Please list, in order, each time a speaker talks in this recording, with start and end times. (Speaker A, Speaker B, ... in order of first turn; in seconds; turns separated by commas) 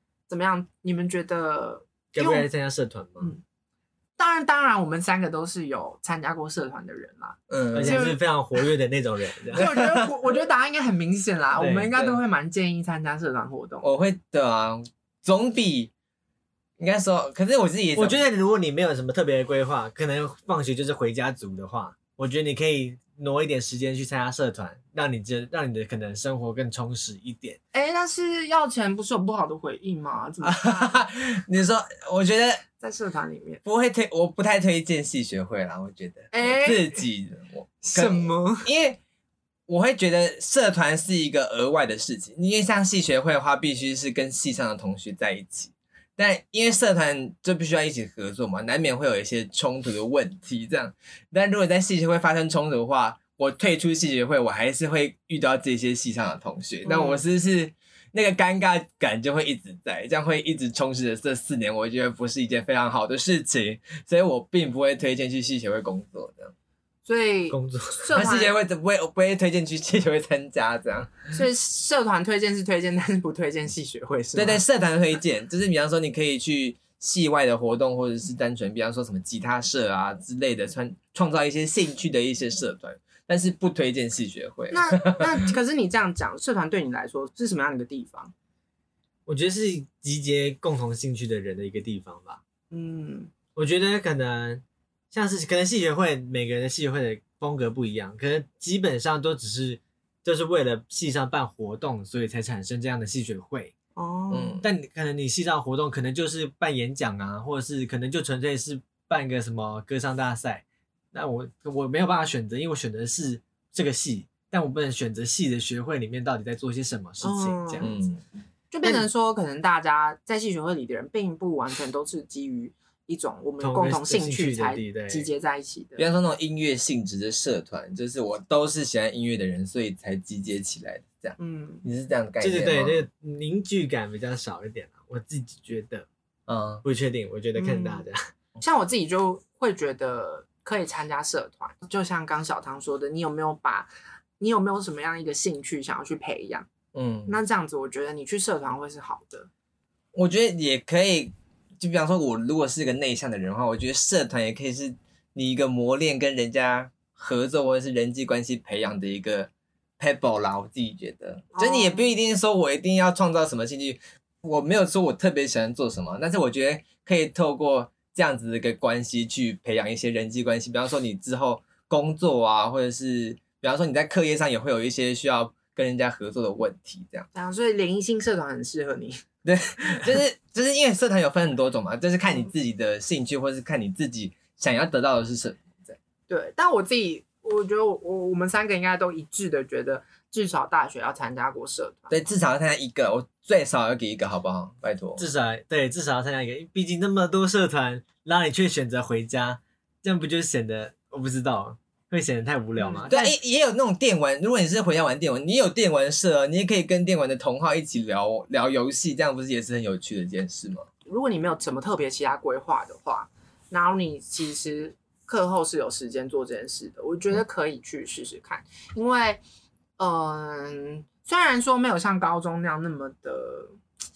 Speaker A: 0.3-2.5, Speaker B: 2.1-3.3, Speaker A: 4.2-8.2, Speaker C: 7.5-8.1, Speaker B: 7.7-9.7, Speaker A: 9.5-13.9, Speaker C: 9.6-10.1, Speaker B: 11.6-12.0, Speaker C: 13.8-15.9, Speaker C: 16.8-18.2, Speaker B: 17.9-27.6, Speaker A: 27.7-31.1, Speaker C: 30.4-32.6, Speaker A: 32.8-33.6, Speaker C: 33.6-39.0, Speaker A: 36.3-37.0, Speaker A: 37.9-38.7, Speaker C: 39.7-66.5, Speaker A: 56.8-57.2, Speaker A: 67.1-68.6, Speaker B: 67.5-68.1, Speaker C: 68.1-71.3, Speaker A: 71.3-74.6, Speaker C: 74.3-85.5, Speaker A: 84.7-88.3, Speaker B: 89.3-92.4, Speaker A: 92.7-93.3, Speaker B: 93.6-103.7, Speaker A: 104.0-104.6, Speaker C: 104.3-104.7, Speaker B: 104.6-117.9, Speaker A: 117.2-117.9, Speaker C: 117.8-118.2, Speaker A: 118.7-126.1, Speaker B: 123.6-125.3, Speaker C: 126.0-133.0, Speaker A: 131.4-131.8, Speaker B: 132.4-136.1, Speaker C: 136.5-136.8, Speaker B: 136.8-138.2, Speaker A: 137.6-138.1, Speaker A: 138.6-146.7, Speaker C: 146.9-147.4, Speaker A: 147.3-149.5, Speaker C: 150.1-177.3, Speaker A: 161.5-162.1, Speaker A: 177.3-179.2, Speaker C: 179.4-186.0, Speaker A: 186.3-192.2, Speaker C: 192.1-195.2, Speaker B: 195.2-203.3, Speaker A: 202.8-203.2, Speaker C: 203.1-210.9, Speaker A: 211.1-219.4, Speaker A: 220.0-223.8